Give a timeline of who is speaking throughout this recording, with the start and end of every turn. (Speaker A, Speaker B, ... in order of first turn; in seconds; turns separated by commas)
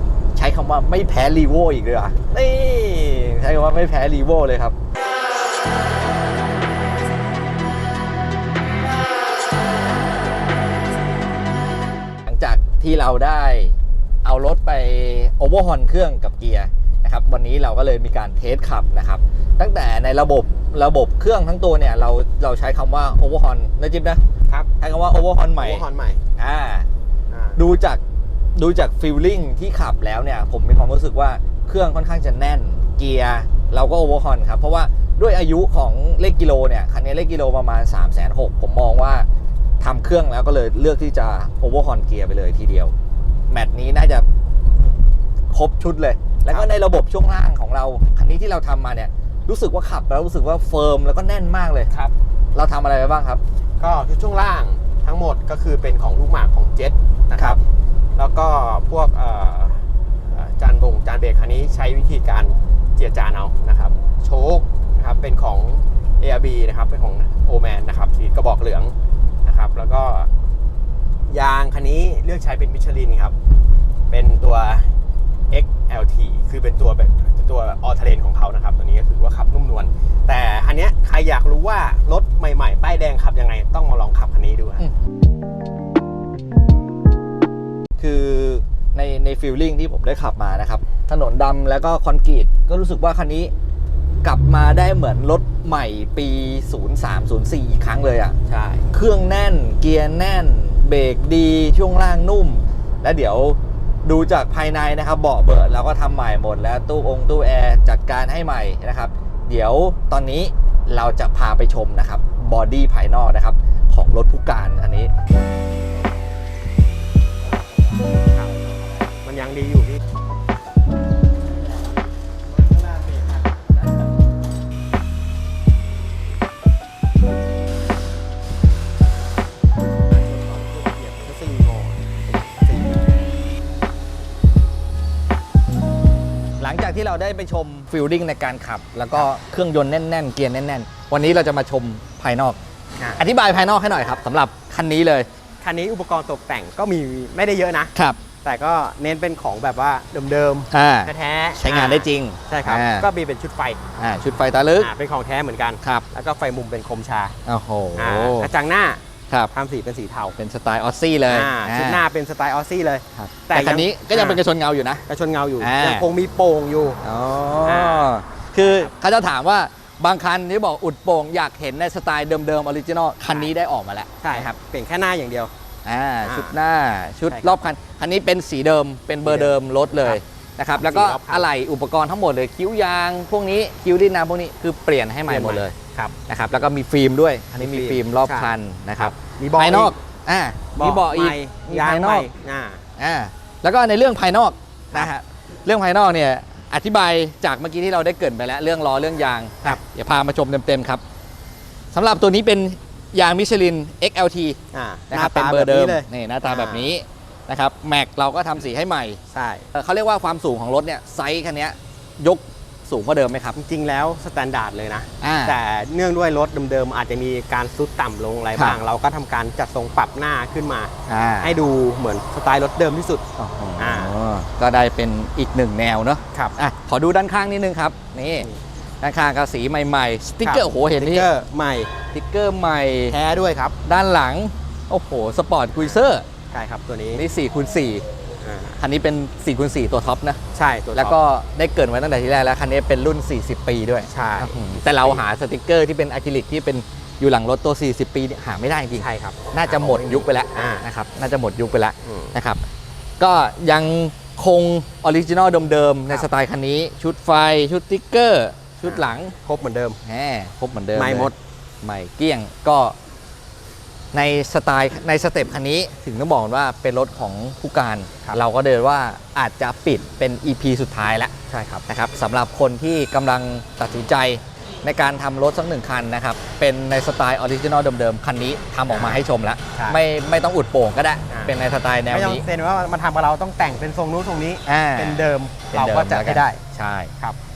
Speaker A: 0.3-4.8, Speaker A: 12.2-24.2, Speaker A: 24.8-25.8, Speaker B: 25.6-26.2, Speaker A: 26.4-26.9, Speaker B: 27.3-27.6, Speaker A: 27.6-28.0, Speaker A: 28.5-39.3, Speaker A: 39.8-42.9, Speaker A: 43.5-44.2, Speaker A: 45.5-51.9, Speaker B: 46.5-46.7, Speaker A: 52.5-53.4, Speaker B: 53.8-57.6, Speaker B: 58.1-70.3, Speaker B: 71.3-73.3, Speaker B: 74.1-74.9, Speaker B: 75.5-84.8, Speaker A: 88.0-93.5, Speaker A: 94.2-98.3, Speaker B: 98.5-98.9, Speaker A: 98.9-115.1, Speaker B: 117.6-120.0, Speaker B: 122.5-123.8, Speaker B: 130.1-133.2, Speaker A: 136.6-142.6, Speaker A: 143.2-145.3, Speaker B: 145.6-153.8, Speaker A: 147.9-148.2, Speaker A: 150.7-153.1, Speaker A: 154.0-154.9, Speaker B: 154.8-157.3, Speaker A: 157.4-158.5, Speaker B: 157.9-160.3, Speaker A: 160.3-162.0, Speaker B: 161.3-164.4, Speaker A: 163.2-165.0, Speaker B: 165.1-167.0, Speaker A: 165.6-166.1, Speaker A: 167.0-174.6, Speaker B: 167.6-168.9, Speaker B: 174.2-175.5, Speaker A: 175.8-185.7, Speaker B: 176.2-176.6, Speaker B: 177.3-177.6, Speaker B: 179.2-180.2, Speaker B: 180.8-181.5, Speaker B: 185.3-186.2, Speaker A: 186.3-192.3, Speaker B: 187.5-189.9, Speaker B: 190.8-192.8, Speaker A: 193.0-201.0, Speaker A: 201.9-204.6, Speaker B: 204.7-206.9, Speaker A: 205.1-209.2, Speaker B: 209.3-209.7, Speaker A: 209.7-213.6, Speaker B: 213.6-223.2, Speaker A: 215.2-215.6, Speaker A: 221.1-221.5, Speaker A: 223.4-228.5, Speaker B: 223.8-224.1, Speaker A: 229.0-231.3, Speaker B: 230.4-231.9, Speaker A: 232.1-233.2, Speaker B: 233.1-233.8, Speaker A: 233.8-236.2, Speaker B: 235.8-237.2, Speaker A: 237.1-238.1, Speaker B: 238.4-238.8, Speaker A: 238.8-240.4, Speaker B: 240.5-241.2, Speaker A: 240.9-252.6, Speaker B: 244.1-245.2, Speaker B: 248.9-250.8, Speaker B: 252.0-252.3, Speaker A: 253.2-259.3, Speaker B: 258.8-260.0, Speaker A: 260.0-261.3, Speaker B: 260.9-261.4, Speaker A: 261.8-262.9, Speaker A: 264.1-271.3, Speaker B: 271.5-271.8, Speaker A: 271.9-282.4, Speaker B: 278.9-279.2, Speaker B: 281.3-281.5, Speaker B: 282.1-286.6, Speaker A: 284.6-287.1